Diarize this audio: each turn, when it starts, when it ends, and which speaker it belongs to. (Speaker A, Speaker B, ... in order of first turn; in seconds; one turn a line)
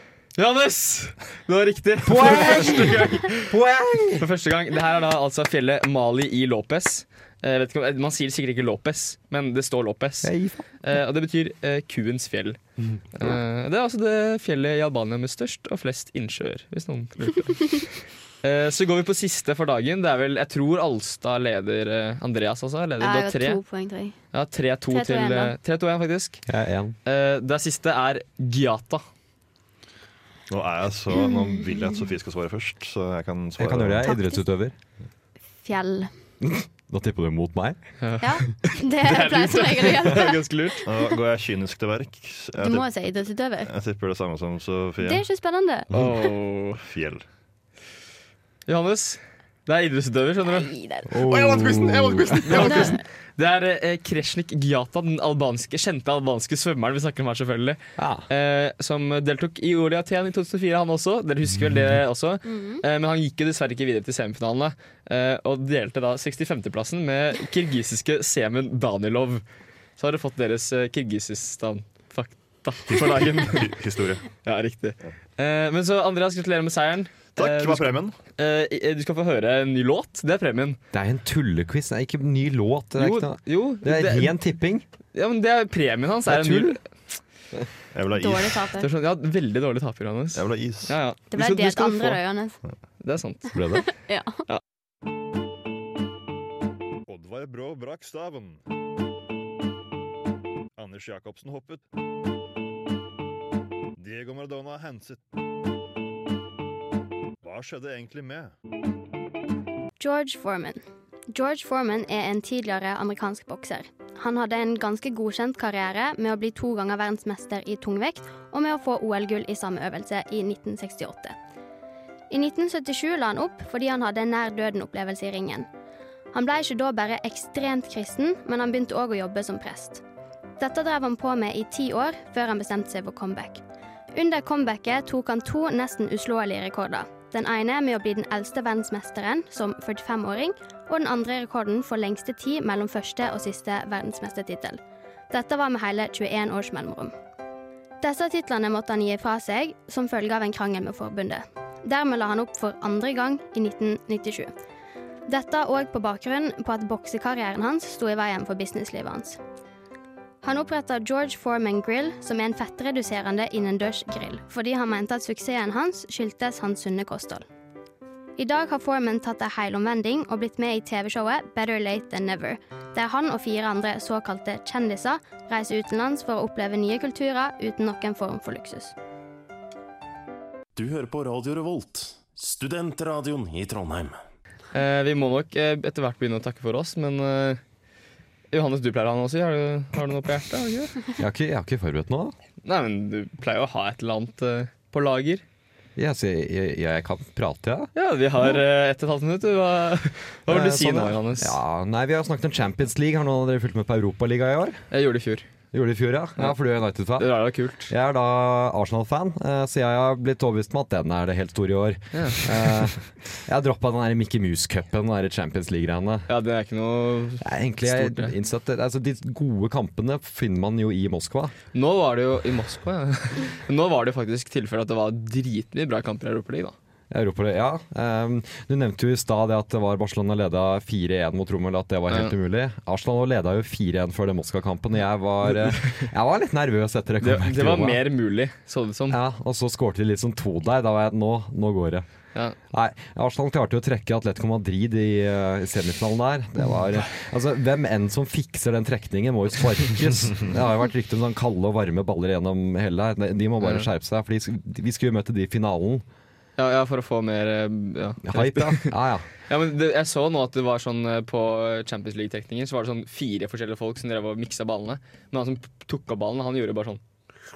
Speaker A: 0.3-3.5
Speaker B: 2.0-4.2
Speaker A: 4.2-12.6
Speaker B: 10.2-10.7
Speaker A: 13.1-23.6
Speaker C: 23.0-24.1
Speaker A: 24.3-26.4
Speaker C: 24.9-25.6
Speaker B: 26.5-26.9
Speaker A: 27.1-29.0
Speaker D: 30.5-34.1
Speaker B: 33.6-34.7
Speaker C: 34.0-34.4
Speaker C: 35.6-36.1
Speaker B: 36.4-37.8
Speaker A: 38.0-40.9
Speaker C: 38.2-40.8
Speaker D: 40.9-42.9
Speaker C: 42.6-43.7
Speaker D: 43.6-45.2
Speaker C: 45.0-45.9
Speaker A: 45.9-46.8
Speaker D: 46.8-47.2
Speaker A: 48.7-50.7
Speaker C: 50.5-51.1
Speaker B: 51.1-52.7
Speaker D: 51.1-52.9
Speaker A: 52.4-69.4
Speaker C: 52.6-53.0
Speaker B: 58.0-58.2
Speaker C: 62.4-62.8
Speaker A: 70.0-73.6
Speaker D: 72.9-74.3
Speaker A: 74.4-80.8
Speaker D: 77.3-78.2
Speaker B: 80.9-84.8
Speaker A: 83.0-84.3
Speaker A: 85.1-86.8
Speaker B: 86.3-86.8
Speaker D: 87.9-88.6
Speaker C: 88.1-88.9
Speaker A: 88.8-92.2
Speaker D: 90.3-91.0
Speaker C: 91.3-92.6
Speaker A: 93.0-93.5
Speaker B: 93.5-93.9
Speaker C: 93.9-94.4
Speaker D: 97.1-98.6
Speaker D: 100.8-101.8
Speaker D: 104.0-105.2
Speaker D: 107.4-108.5
Speaker C: 110.0-121.3
Speaker C: 122.3-125.7
Speaker C: 126.3-130.0
Speaker C: 130.6-133.6
Speaker C: 134.1-147.1
Speaker C: 148.0-154.5
Speaker C: 155.3-159.4
Speaker C: 160.4-167.4
Speaker C: 168.4-178.9
Speaker E: 180.8-184.2
Speaker A: 184.7-187.6
Speaker A: 188.5-191.0
Speaker B: 191.2-192.3
Speaker A: 192.6-195.4
Speaker B: 195.9-197.9
Speaker A: 197.9-201.5
Speaker B: 200.5-204.8
Speaker A: 204.9-205.4
Speaker B: 205.7-216.3
Speaker A: 207.2-207.9
Speaker A: 212.1-212.5
Speaker A: 216.3-218.3
Speaker B: 217.4-221.5
Speaker A: 221.7-226.8
Speaker B: 227.1-238.0
Speaker A: 232.1-232.3
Speaker A: 235.5-236.1
Speaker A: 237.2-239.2
Speaker B: 239.1-242.0
Speaker B: 242.7-256.0
Speaker A: 253.6-253.9
Speaker A: 256.6-258.9
Speaker B: 258.2-259.3
Speaker A: 259.5-267.0